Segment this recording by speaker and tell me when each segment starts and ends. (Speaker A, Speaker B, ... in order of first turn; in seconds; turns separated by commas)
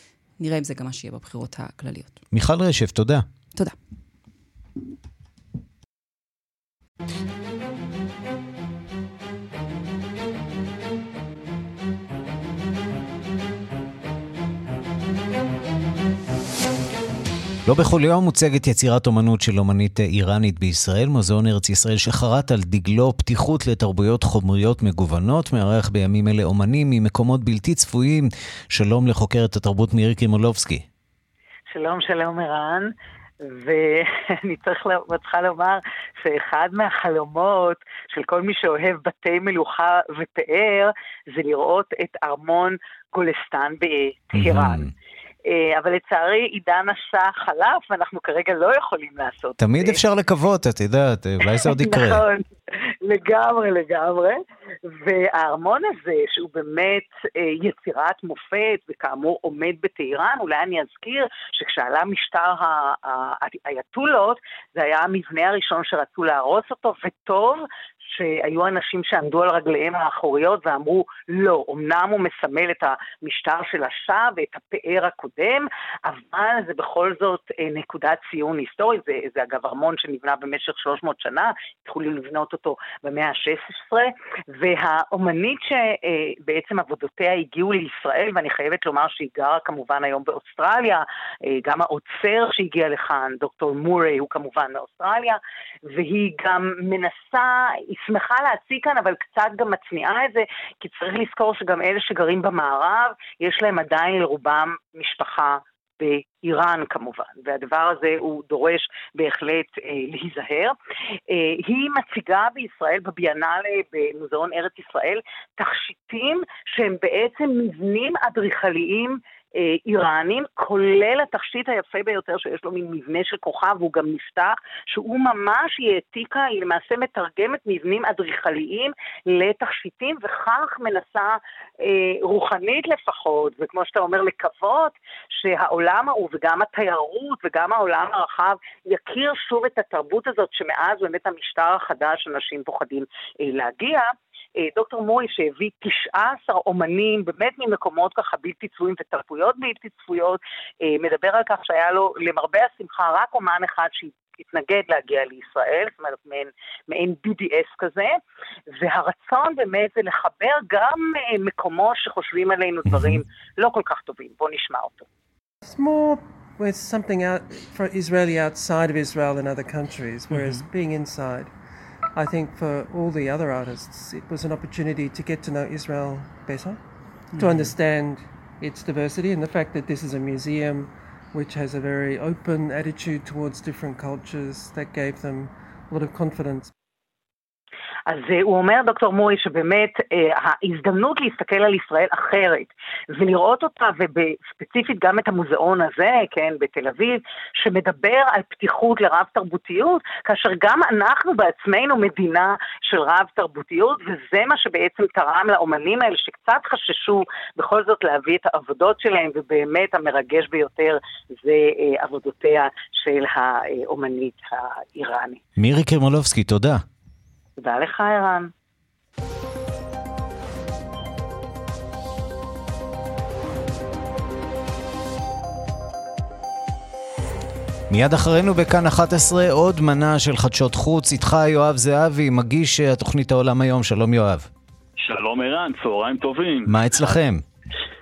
Speaker A: 0.4-2.2, Speaker B: 2.3-3.2, Speaker B: 17.6-30.8, Speaker C: 31.7-44.8, Speaker B: 44.4-44.9, Speaker C: 45.5-50.0, Speaker B: 49.6-52.2, Speaker C: 51.6-52.5, Speaker C: 53.0-110.7, Speaker C: 111.3-144.1, Speaker C: 144.6-158.1, Speaker C: 158.8-165.1, Speaker B: 162.9-163.2, Speaker D: 165.6-171.5, Speaker A: 170.3-170.6, Speaker D: 172.1-176.8, Speaker A: 177.3-177.7, Speaker D: 177.4-186.7, Speaker C: 188.1-215.4, Speaker B: 215.6-216.8, Speaker C: 217.6-218.5, Speaker B: 227.9-234.5, Speaker E: 235.0-237.2, Speaker B: 236.7-237.4